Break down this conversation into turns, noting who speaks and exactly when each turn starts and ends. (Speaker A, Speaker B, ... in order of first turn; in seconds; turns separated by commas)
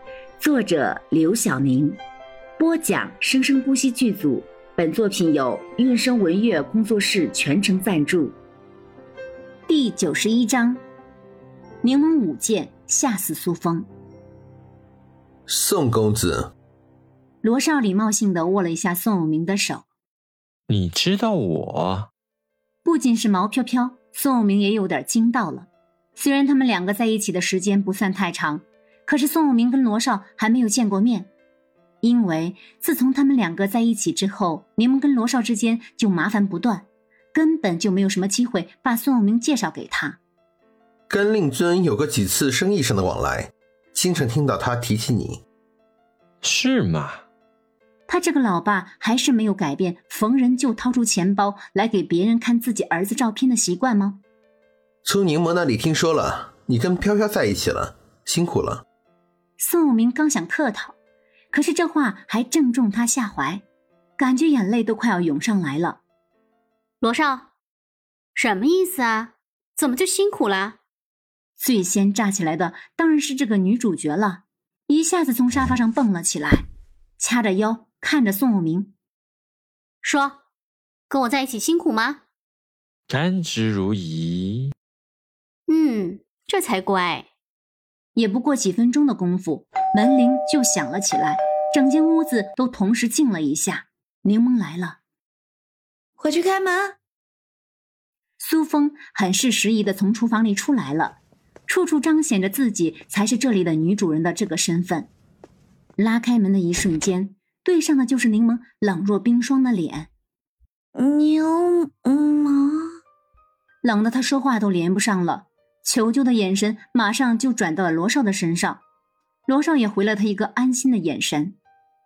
Speaker A: 0.4-2.0, Speaker A: 2.6-8.4, Speaker A: 9.7-10.8, Speaker A: 11.8-13.8, Speaker B: 15.5-16.5, Speaker A: 17.4-19.8, Speaker C: 20.7-22.1, Speaker A: 22.8-31.3, Speaker A: 32.0-40.2, Speaker B: 41.1-45.4, Speaker C: 46.4-47.2, Speaker A: 48.1-54.2, Speaker B: 55.0-58.8, Speaker A: 59.6-61.0, Speaker A: 61.5-63.6, Speaker A: 64.2-66.0, Speaker D: 67.0-67.5, Speaker D: 68.3-70.8, Speaker A: 71.6-76.7, Speaker A: 77.2-78.9, Speaker D: 80.0-80.4, Speaker D: 81.1-82.2, Speaker C: 83.1-84.7, Speaker D: 85.7-87.2, Speaker A: 88.1-95.0, Speaker E: 96.2-96.9, Speaker A: 98.4-105.1, Speaker A: 106.0-110.1, Speaker E: 111.0-112.9, Speaker A: 113.8-118.8, Speaker A: 119.5-121.5